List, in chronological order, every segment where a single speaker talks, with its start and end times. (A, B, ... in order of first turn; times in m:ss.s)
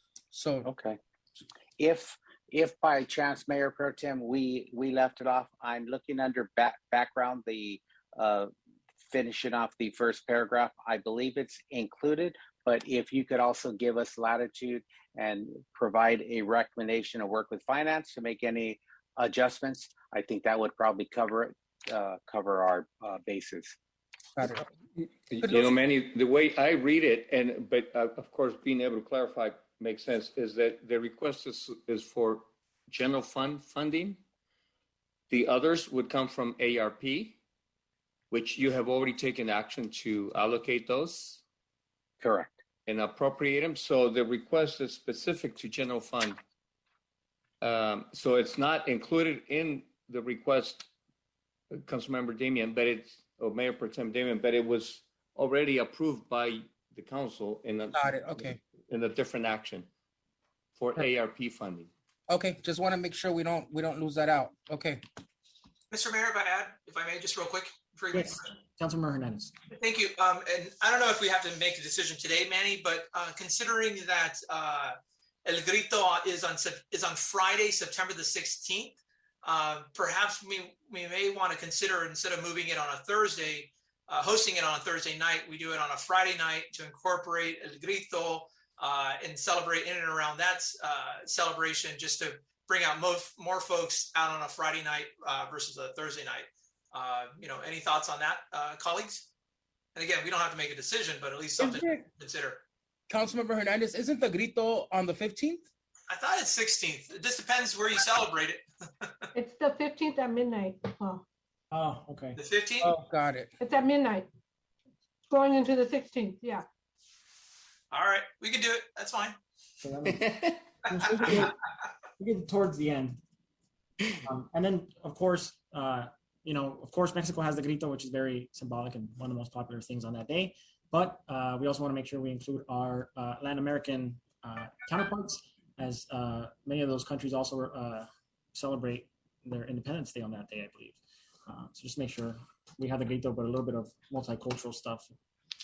0:00.3-0:00.7 A
0:00.6-0:01.0 B
0:01.8-0:08.5 B
0:09.1-0:23.7 B
0:24.4-0:24.7 A
0:25.0-0:34.2 C
0:25.4-0:25.8 A
0:35.3-0:37.4 C
0:38.3-0:41.4 C
0:42.2-0:42.5 B
0:42.8-0:46.4 C
0:47.6-0:50.9 C
0:51.7-0:59.9 C
0:57.9-0:58.6 A
1:00.8-1:01.9 C
1:02.3-1:05.0 A
1:05.9-1:08.4 D
1:08.1-1:09.5 E
1:09.7-1:39.3 D
1:40.0-1:42.6 D
1:41.6-1:42.1 A
1:43.1-1:45.6 A
1:46.1-1:49.2 D
1:49.3-1:51.2 F
1:51.7-1:52.4 E
1:52.4-1:52.9 D
1:52.8-1:53.5 A
1:53.6-1:54.3 F
1:55.3-1:56.6 F
1:57.9-1:59.4 D
1:59.8-2:01.6 E
2:02.2-2:03.2 E
2:04.2-2:25.1 E